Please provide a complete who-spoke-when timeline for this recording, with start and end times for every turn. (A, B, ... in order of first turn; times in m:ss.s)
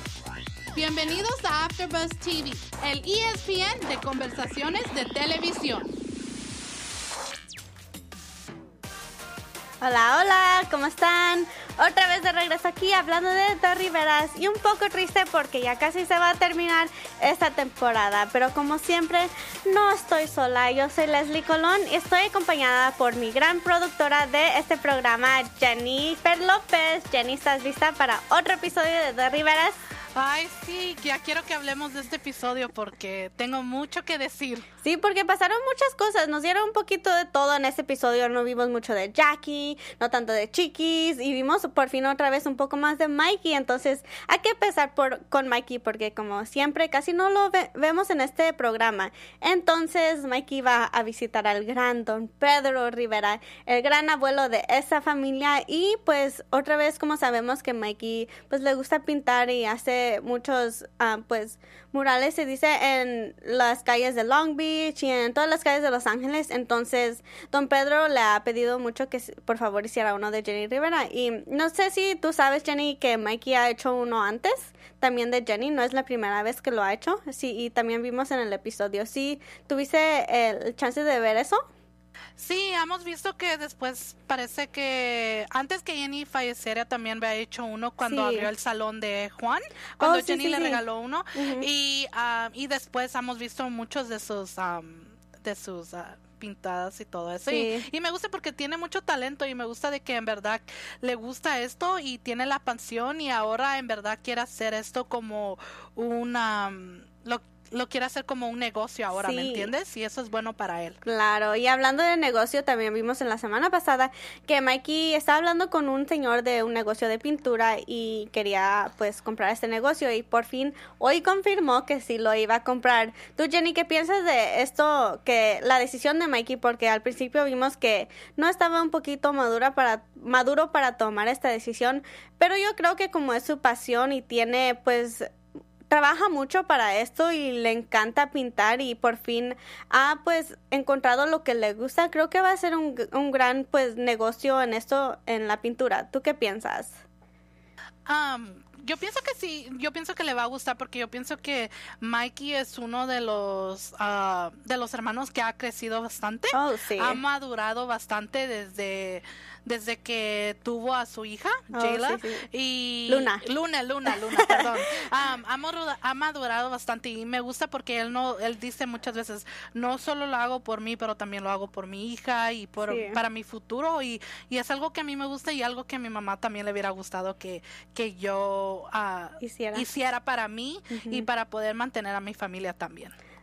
0:00.7-0:05.9 A
0:09.8-0:29.8 B
0:30.2-0:34.7 A
0:34.8-1:21.6 B
1:22.4-1:51.0 A
1:28.0-1:28.5 B
1:30.0-1:30.8 B
1:31.4-1:31.7 B
1:37.5-1:37.9 B
1:49.2-1:49.7 B
1:51.0-2:15.3 B
2:15.9-2:27.0 B
2:28.1-3:03.2 A
2:36.5-2:37.2 B
2:41.7-2:42.5 B
2:43.1-2:43.4 B
2:44.2-2:44.6 B
2:52.8-2:53.2 B
2:59.4-2:59.8 B
3:00.9-3:01.3 B